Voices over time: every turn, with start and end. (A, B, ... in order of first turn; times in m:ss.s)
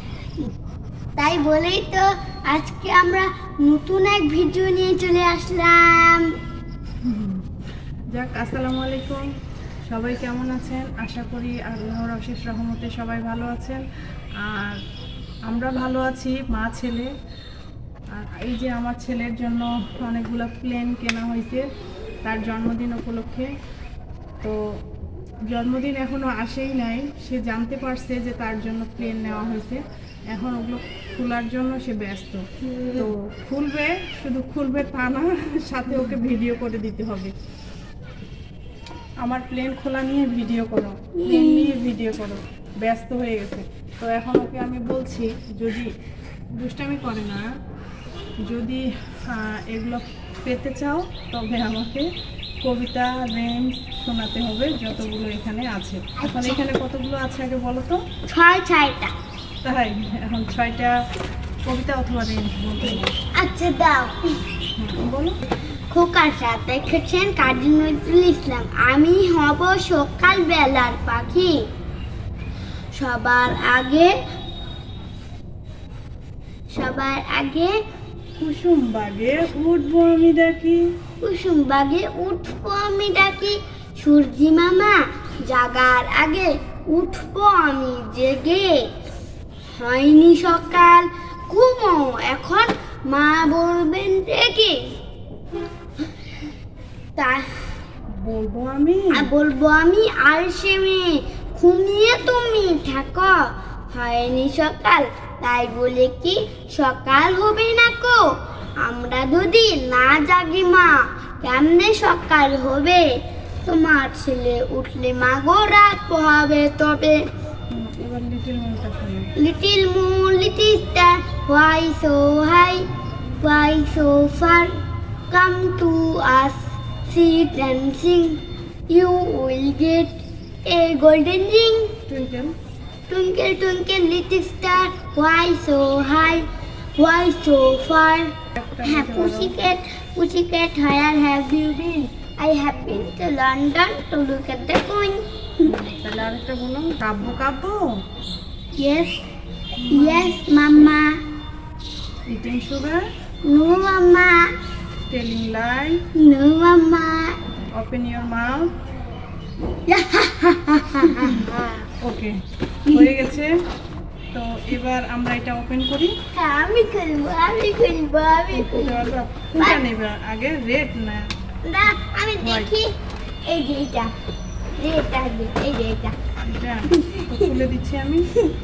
0:01.2-0:06.3 A
0:07.0-0:07.4 B
0:08.1-0:09.2 B
0:09.9-0:13.8 B
0:14.4-0:14.8 B
0:15.5-0:17.1 B
0:18.1-0:21.7 B
0:22.2-0:23.5 B
0:25.5-0:32.4 B
0:32.6-0:33.1 A
0:33.0-0:37.3 B
0:39.2-0:45.9 B
0:41.2-0:41.8 A
0:46.6-0:47.5 B
0:48.5-0:52.1 B
0:52.6-0:58.0 B
0:56.2-0:56.6 A
0:58.3-0:59.1 A
0:59.6-1:00.9 B
1:01.6-1:03.1 B
1:02.9-1:04.2 A
1:04.8-1:05.4 B
1:05.9-1:11.6 A
1:13.0-1:14.1 A
1:16.7-1:17.7 A
1:18.4-1:20.8 B
1:21.2-1:28.8 A
1:29.7-1:34.8 A
1:37.2-1:37.6 A
1:38.2-1:39.3 B
1:39.1-1:48.2 A
1:48.8-1:53.1 A
1:53.6-1:57.2 A
1:57.7-1:59.3 B
1:59.4-2:02.8 A
2:03.4-2:04.7 A
2:05.3-2:10.1 A
2:10.7-2:11.9 A
2:12.1-2:12.6 B
2:13.1-2:16.4 A
2:17.0-2:18.3 A
2:18.6-2:19.6 B
2:18.8-2:25.7 A
2:25.6-2:27.9 B
2:28.8-2:29.2 A
2:29.8-2:30.4 B
2:29.9-2:31.2 A
2:32.3-2:33.1 B
2:33.5-2:34.4 A
2:35.1-2:36.0 B
2:36.2-2:37.4 A
2:37.7-2:38.7 B
2:39.9-2:41.9 A
2:41.2-2:41.4 B
2:42.0-2:43.5 B
2:44.3-2:46.2 B
2:46.3-2:49.8 A
2:48.5-2:51.3 B
2:51.6-2:52.9 A
2:52.4-2:52.7 B
2:53.5-2:54.1 A
2:54.8-2:56.2 A
2:56.4-2:58.3 B
2:56.9-2:57.5 A